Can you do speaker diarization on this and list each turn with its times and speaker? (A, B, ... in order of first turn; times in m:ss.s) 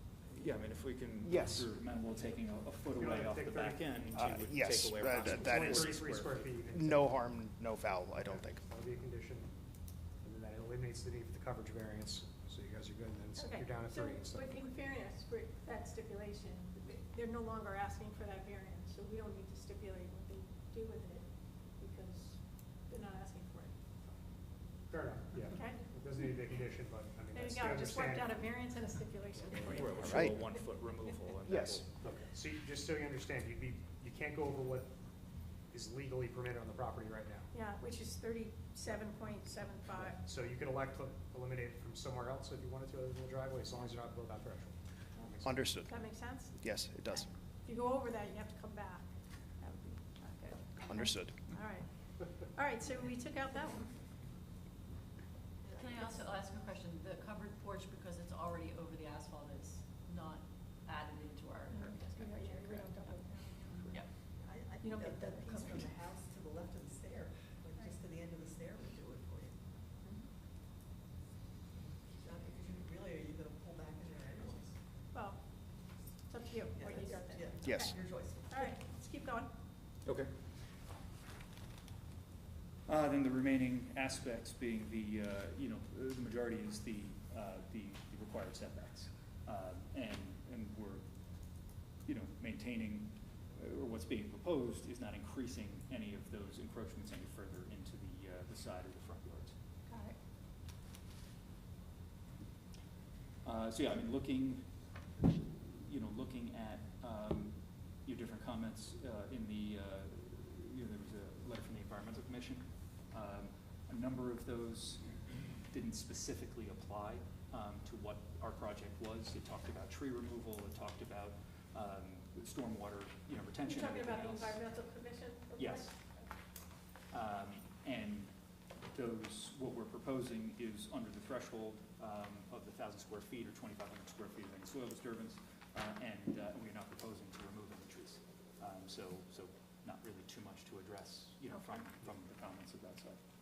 0:00.3-0:06.5 A
0:01.2-0:01.7 B
0:03.0-0:03.8 C
0:04.1-0:06.0 B
0:05.4-0:07.1 C
0:06.7-0:08.6 B
0:08.2-0:09.5 C
0:10.2-0:14.7 C
0:13.4-0:24.2 D
0:24.9-0:28.5 C
0:25.5-0:25.8 D
0:27.3-0:30.3 D
0:29.5-0:32.0 A
0:29.7-0:30.1 C
0:30.0-0:30.4 B
0:31.5-0:31.8 B
0:32.0-0:34.9 C
0:35.7-0:37.5 C
0:37.5-0:40.2 D
0:40.0-0:45.6 C
0:45.4-0:45.9 B
0:45.9-0:46.6 D
0:46.5-0:47.3 B
0:47.6-0:49.1 D
0:49.6-0:53.9 D
0:50.8-0:51.4 B
0:55.6-0:56.3 E
0:55.7-1:03.1 F
1:01.7-1:03.8 D
1:03.7-1:04.0 A
1:04.3-1:09.6 E
1:04.8-1:05.9 D
1:12.0-1:14.8 E
1:15.1-1:15.4 D
1:16.3-1:18.0 D
1:16.7-1:18.7 E
1:17.6-1:17.9 B
1:18.5-1:19.5 D
1:20.0-1:20.3 A
1:22.9-1:31.0 A
1:32.0-1:39.5 A
1:39.9-1:40.1 D
1:43.4-1:44.7 A
1:45.4-2:04.6 A
2:03.6-2:06.2 D
2:05.6-2:05.9 A
2:07.1-2:08.3 A
2:08.9-2:23.2 A
2:21.5-2:21.8 D